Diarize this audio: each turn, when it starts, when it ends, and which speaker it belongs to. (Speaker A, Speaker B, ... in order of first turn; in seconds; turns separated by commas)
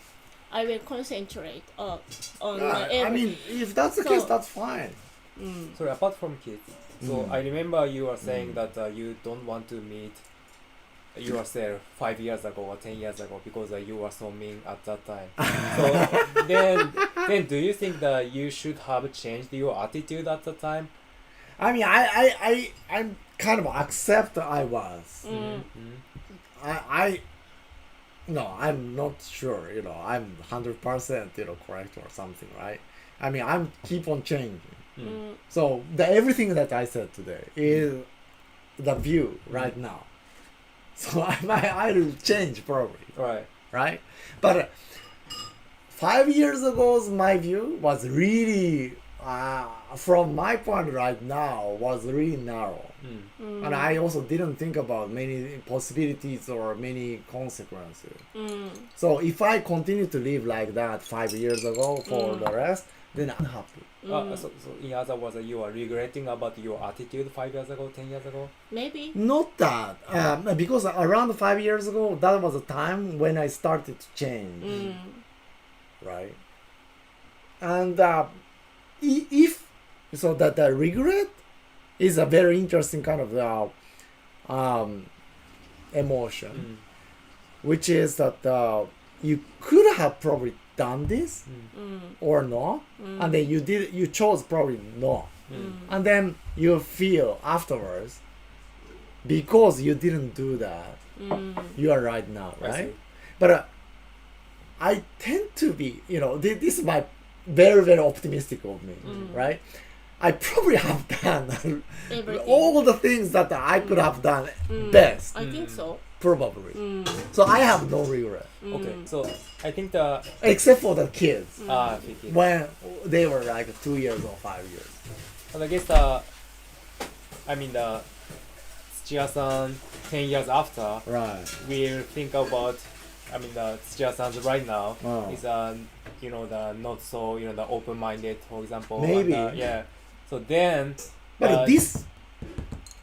Speaker A: 0.5-4.3, Speaker B: 2.5-5.0, Speaker A: 5.3-5.8, Speaker C: 5.7-10.2, Speaker B: 7.0-7.3, Speaker C: 11.1-20.9, Speaker B: 21.6-25.3, Speaker A: 25.2-25.7, Speaker C: 25.3-26.0, Speaker B: 26.5-27.2, Speaker B: 28.3-34.8, Speaker C: 35.0-35.2, Speaker A: 35.0-35.4, Speaker B: 35.5-38.1, Speaker B: 38.8-40.1, Speaker B: 41.0-43.1, Speaker C: 43.1-43.5, Speaker B: 43.7-44.7, Speaker B: 45.9-53.0, Speaker C: 53.0-53.3, Speaker A: 53.4-54.0, Speaker B: 53.6-58.2, Speaker A: 58.3-58.9, Speaker B: 59.0-63.9, Speaker A: 62.0-62.5, Speaker A: 64.0-64.5, Speaker C: 64.0-68.5, Speaker A: 68.7-69.2, Speaker B: 69.1-74.9, Speaker A: 74.6-75.2, Speaker B: 76.0-76.4, Speaker B: 77.6-78.4, Speaker B: 79.0-81.3, Speaker B: 82.0-83.7, Speaker B: 84.4-85.1, Speaker B: 85.9-86.7, Speaker C: 86.5-86.8, Speaker B: 87.6-91.4, Speaker A: 91.7-92.2, Speaker B: 92.2-95.3, Speaker A: 93.0-93.4, Speaker C: 95.5-95.8, Speaker A: 95.5-95.9, Speaker B: 95.9-98.2, Speaker B: 99.2-101.0, Speaker A: 101.2-101.8, Speaker B: 101.7-103.7, Speaker C: 102.6-103.0, Speaker B: 104.8-109.7, Speaker C: 109.0-109.3, Speaker A: 109.0-109.5, Speaker B: 110.2-115.3, Speaker A: 112.1-112.8, Speaker A: 114.7-116.0, Speaker C: 115.4-115.9, Speaker B: 116.2-118.5, Speaker A: 116.7-117.3, Speaker A: 118.6-119.0, Speaker C: 118.7-120.3, Speaker B: 120.4-121.7, Speaker A: 121.6-122.0, Speaker C: 121.6-122.4, Speaker B: 122.2-125.0, Speaker C: 125.5-126.3, Speaker C: 127.4-128.1, Speaker C: 128.9-131.1, Speaker B: 131.1-131.5, Speaker C: 131.6-141.8, Speaker B: 135.0-135.4, Speaker B: 138.9-139.6, Speaker B: 141.4-142.1